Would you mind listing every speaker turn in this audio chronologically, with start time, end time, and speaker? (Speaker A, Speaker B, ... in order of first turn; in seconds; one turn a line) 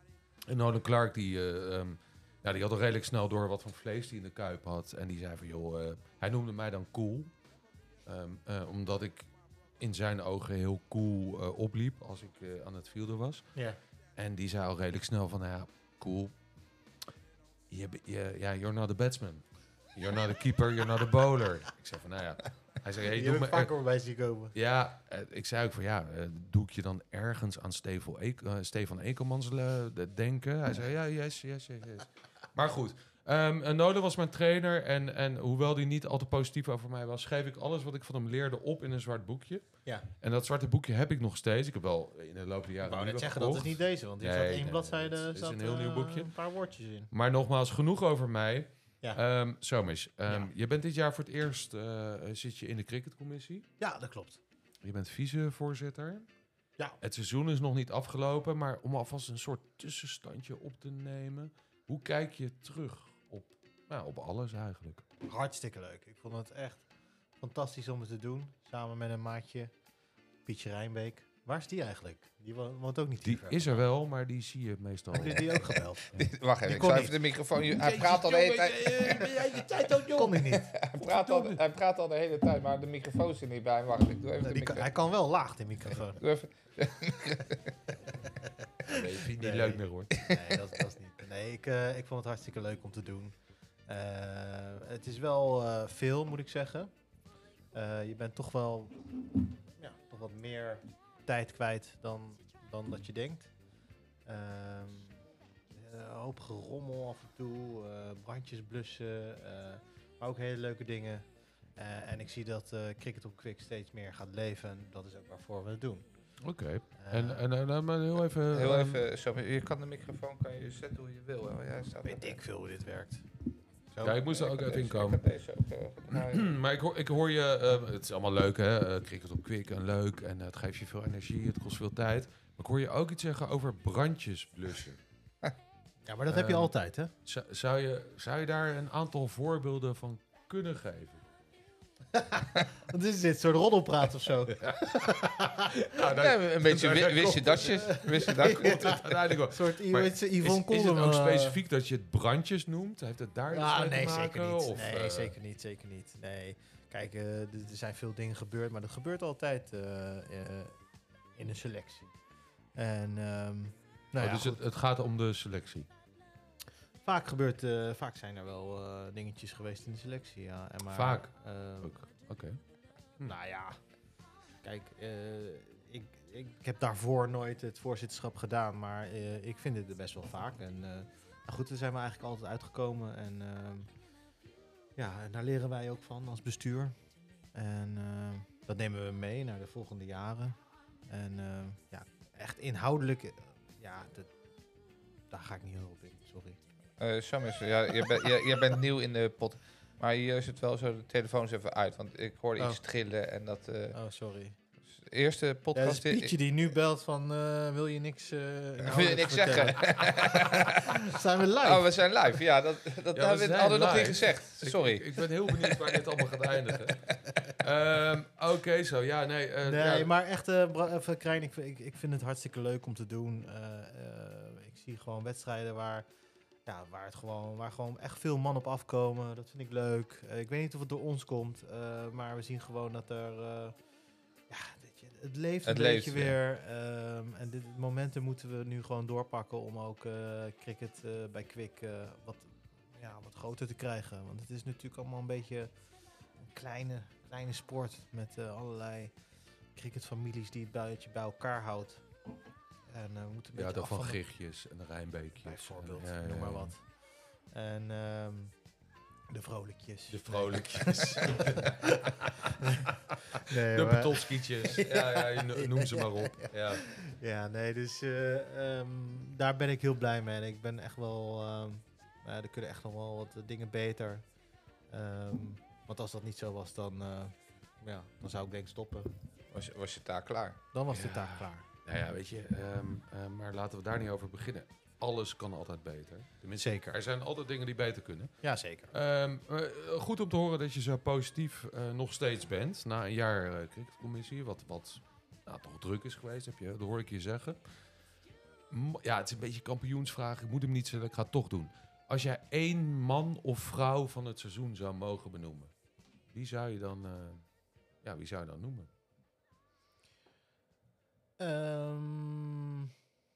Speaker A: 0.5-7.3
Speaker A: 8.1-13.4
Speaker A: 14.2-16.3
Speaker A: 17.7-23.7
Speaker B: 23.1-24.5
Speaker A: 24.5-39.7
Speaker A: 40.2-46.3
Speaker B: 42.8-47.1
Speaker A: 47.1-53.7
Speaker B: 53.8-54.4
Speaker A: 54.8-56.3
Speaker A: 57.0-65.0
Speaker B: 65.2-66.8
Speaker B: 67.4-69.7
Speaker B: 70.5-73.8
Speaker A: 73.2-76.2
Speaker B: 75.1-77.2
Speaker C: 76.2-79.3
Speaker A: 77.7-81.6
Speaker B: 79.3-80.7
Speaker C: 80.5-84.9
Speaker B: 84.4-86.2
Speaker C: 86.2-87.7
Speaker B: 88.1-93.3
Speaker A: 88.8-90.2
Speaker B: 93.9-96.9
Speaker B: 97.7-103.5
Speaker B: 104.2-105.2
Speaker B: 105.7-111.2
Speaker B: 111.8-116.0
Speaker A: 116.4-119.0
Speaker B: 117.0-117.5
Speaker C: 118.5-122.4
Speaker B: 122.0-123.2
Speaker B: 123.9-124.3
Speaker A: 124.0-125.2
Speaker C: 124.3-126.5
Speaker A: 126.1-135.0
Speaker B: 136.1-137.1
Speaker A: 136.3-136.7
Speaker A: 137.2-141.2
Speaker B: 142.1-145.7
Speaker A: 144.6-155.3
Speaker C: 146.1-148.9
Speaker B: 147.7-151.6
Speaker B: 153.5-160.7
Speaker B: 161.3-162.1
Speaker B: 162.8-164.6
Speaker A: 164.2-165.9
Speaker B: 167.0-172.0
Speaker A: 170.9-172.6
Speaker B: 173.2-173.8
Speaker B: 174.6-183.9
Speaker B: 184.9-186.9
Speaker B: 187.5-190.6
Speaker B: 191.1-194.3
Speaker B: 195.3-196.6
Speaker C: 197.0-204.0
Speaker B: 203.9-204.6
Speaker C: 205.0-206.3
Speaker B: 205.7-211.9
Speaker C: 208.8-210.8
Speaker C: 211.6-215.1
Speaker A: 213.1-220.1
Speaker B: 219.7-226.1
Speaker B: 226.7-233.7
Speaker B: 234.5-245.7
Speaker C: 235.6-236.3
Speaker B: 246.4-249.1
Speaker B: 249.7-252.0
Speaker B: 252.9-254.2
Speaker A: 253.5-256.7
Speaker B: 255.4-256.9
Speaker B: 257.5-258.5
Speaker B: 259.3-274.2
Speaker A: 260.1-266.9
Speaker B: 274.9-279.1
Speaker C: 279.5-280.6
Speaker B: 280.7-281.6
Speaker A: 280.9-288.3
Speaker B: 286.6-287.0
Speaker B: 288.4-288.9
Speaker A: 288.9-297.6
Speaker A: 298.7-305.7
Speaker A: 306.3-307.4
Speaker A: 308.0-308.9
Speaker B: 311.4-312.9